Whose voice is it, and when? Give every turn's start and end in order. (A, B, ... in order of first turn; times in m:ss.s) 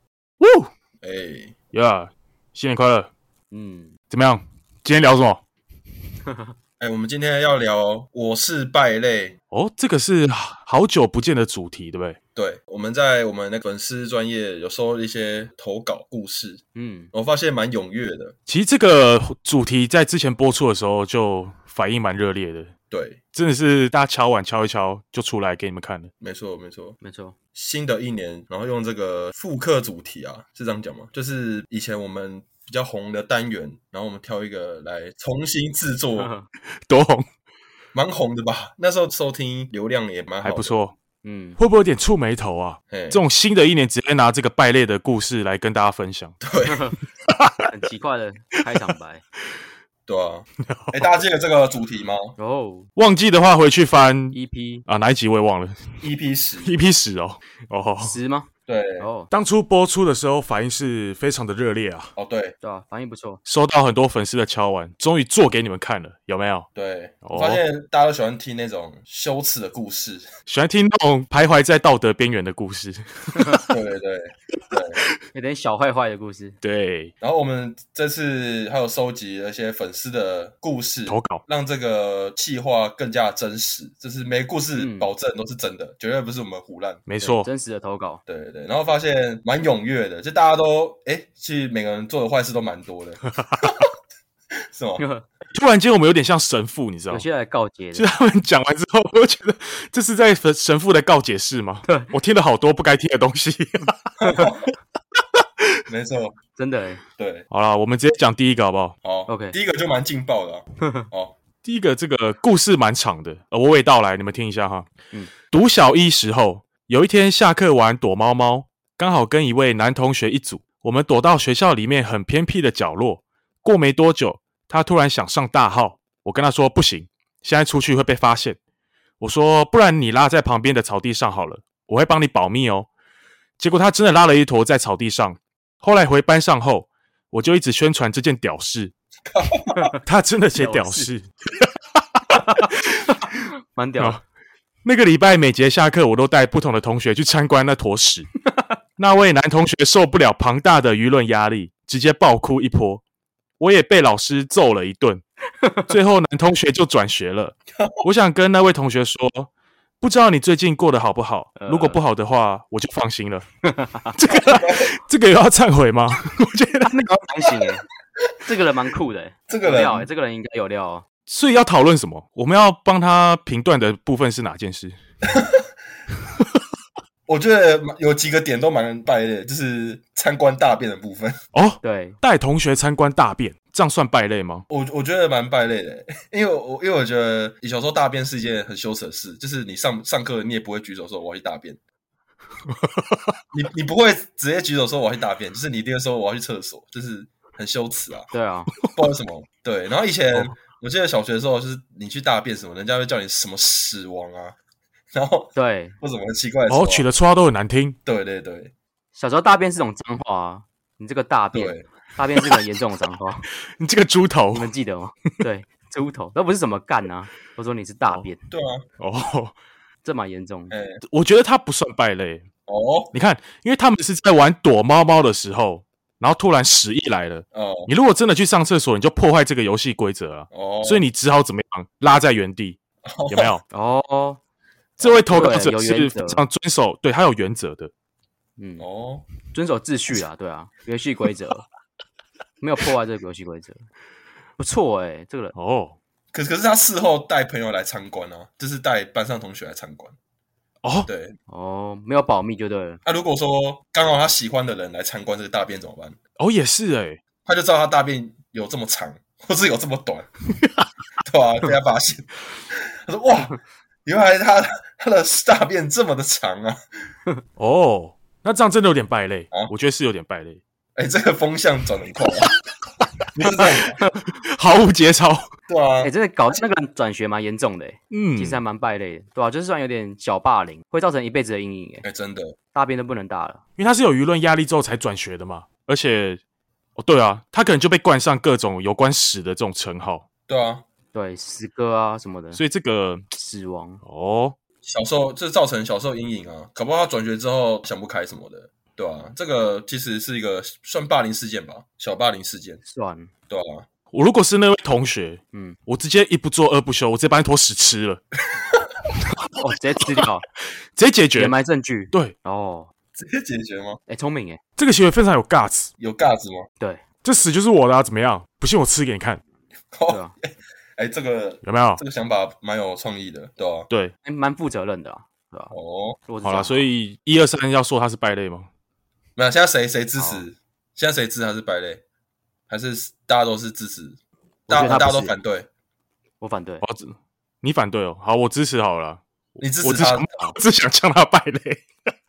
0:00.4-0:00.7 A
0:01.0-0:01.6 B
0:01.7-0:03.1 A
0:03.5-0:03.9 C
0:04.1-0:05.4 A
0:06.3-0:06.5 C
0:06.8-0:09.4 B
0:09.5-0:12.2 A
0:12.4-0:18.4 B
0:16.8-0:17.1 C
0:18.5-0:22.7 A
0:22.9-0:23.2 B
0:23.3-0:26.1 A
0:26.2-0:27.0 B
0:27.0-0:27.4 C
0:27.5-0:36.3 B
0:36.2-0:36.5 C
0:36.9-0:37.2 A
0:37.9-0:40.8 B
0:40.4-0:41.0 A
0:41.2-0:41.6 C
0:41.6-0:46.4 A
0:42.9-0:43.2 B
0:46.4-0:46.9 B
0:46.7-0:47.0 C
0:47.3-0:47.7 A
0:47.6-0:49.2 C
0:50.1-0:52.4 B
0:50.6-0:51.1 A
0:52.4-0:52.9 C
0:53.0-0:55.9 A
0:54.3-0:54.9 C
0:56.0-0:56.7 B
0:56.6-0:58.2 A
0:58.0-0:59.3 C
0:58.7-0:59.1 B
0:59.3-1:02.1 A
1:02.2-1:02.6 B
1:02.6-1:03.4 C
1:03.5-1:06.7 A
1:06.8-1:10.3 B
1:07.2-1:07.6 A
1:10.5-1:13.8 A
1:13.7-1:15.0 B
1:15.3-1:16.6 C
1:16.6-1:17.1 A
1:17.2-1:27.1 B
1:21.1-1:21.4 A
1:24.8-1:25.1 C
1:27.1-1:27.5 A
1:27.2-1:28.2 C
1:28.3-1:33.9 B
1:34.7-1:35.0 B
1:35.0-1:35.3 C
1:35.5-1:37.2 A
1:37.1-1:38.1 C
1:38.0-1:44.6 A
1:44.2-1:44.7 B
1:45.9-1:46.4 B
1:46.6-1:47.0 C
1:47.2-1:47.5 B
1:47.5-1:49.0 A
1:49.0-1:51.4 B
1:49.3-1:49.6 C
1:51.6-1:54.9 A
1:55.5-2:08.6 A
2:09.2-2:12.9 A
2:13.6-2:18.9 A
2:19.3-2:19.9 B
2:20.0-2:21.7 A
2:20.6-2:21.1 C
2:22.2-2:23.0 A
2:22.3-2:24.2 C
2:24.8-2:28.3 A
2:29.0-2:33.0 A
2:33.6-2:35.2 A
2:35.6-2:35.9 C
2:35.9-2:39.5 A
2:37.7-2:38.0 B
2:40.0-2:43.5 A
2:41.6-2:42.0 C
2:43.7-2:44.1 C
2:44.1-2:46.9 A
2:44.3-2:44.9 B
2:46.8-2:47.8 C
2:48.4-2:51.0 C
2:49.5-2:50.1 B
2:51.3-2:55.0 A
2:55.2-2:55.6 B
2:57.3-3:01.4 B
3:01.5-3:04.6 A
3:01.8-3:02.2 C
3:04.7-3:11.8 B
3:12.7-3:13.4 A
3:13.5-3:18.3 B
3:18.3-3:18.7 C
3:18.8-3:24.6 B
3:25.1-3:27.1 B
3:25.6-3:26.0 C
3:26.7-3:28.0 A
3:28.1-3:28.7 B
3:29.2-3:33.5 C
3:31.5-3:31.8 B
3:33.8-3:34.7 A
3:34.5-3:38.5 C
3:38.5-3:38.8 B
3:39.0-3:39.6 A
3:40.0-3:40.7 C
3:40.7-3:41.0 B
3:41.1-3:42.5 A
3:42.7-3:43.1 B
3:43.1-3:53.6 A
3:47.5-3:47.9 B
3:50.5-3:51.1 B
3:53.0-3:53.5 B
3:53.7-3:54.4 C
3:55.0-3:56.4 C
3:55.0-3:57.9 A
3:58.6-3:58.9 C
3:58.8-3:59.2 B
3:59.5-4:01.6 C
4:02.6-4:03.8 C
4:04.6-4:05.5 C
4:05.5-4:06.0 A
4:06.3-4:10.2 B
4:10.8-4:11.1 A
4:11.1-4:11.4 B
4:11.5-4:13.0 C
4:13.0-4:16.2 B
4:16.4-4:17.2 A
4:17.4-4:20.3 B
4:21.2-4:23.6 B
4:24.1-4:26.8 B
4:27.6-4:30.6 A
4:31.0-4:32.5 B
4:33.4-4:34.0 B
4:34.3-4:35.5 A
4:35.7-4:36.1 B
4:36.0-4:42.0 C
4:38.1-4:38.6 A
4:42.0-4:42.6 B
4:42.7-4:43.6 C
4:43.8-4:46.4 A
4:47.0-4:50.2 A
4:50.5-4:50.8 B
4:51.1-4:52.6 C
4:52.5-4:53.2 A
4:53.3-4:54.0 C
4:54.0-4:54.6 A
4:54.8-5:02.8 B
5:02.8-5:03.3 C
5:03.5-5:03.9 B
5:04.1-5:08.2 A
5:08.6-5:08.9 B
5:09.6-5:10.4 C
5:11.0-5:11.5 A
5:11.4-5:12.9 C
5:13.2-5:14.0 B
5:14.1-5:14.6 C
5:14.8-5:15.9 A
5:16.0-5:16.7 B
5:17.2-5:19.4 A
5:19.9-5:23.9 B
5:20.1-5:20.4 C
5:21.6-5:22.0 A
5:24.2-5:25.8 C
5:25.7-5:26.2 B
5:26.3-5:26.9 C
5:26.4-5:28.7 A
5:29.4-5:32.0 B
5:30.2-5:30.4 C
5:32.7-5:35.7 B
5:34.7-5:35.4 C
5:36.4-5:36.8 C
5:36.8-5:39.2 A
5:39.6-5:40.3 B
5:39.8-5:41.8 A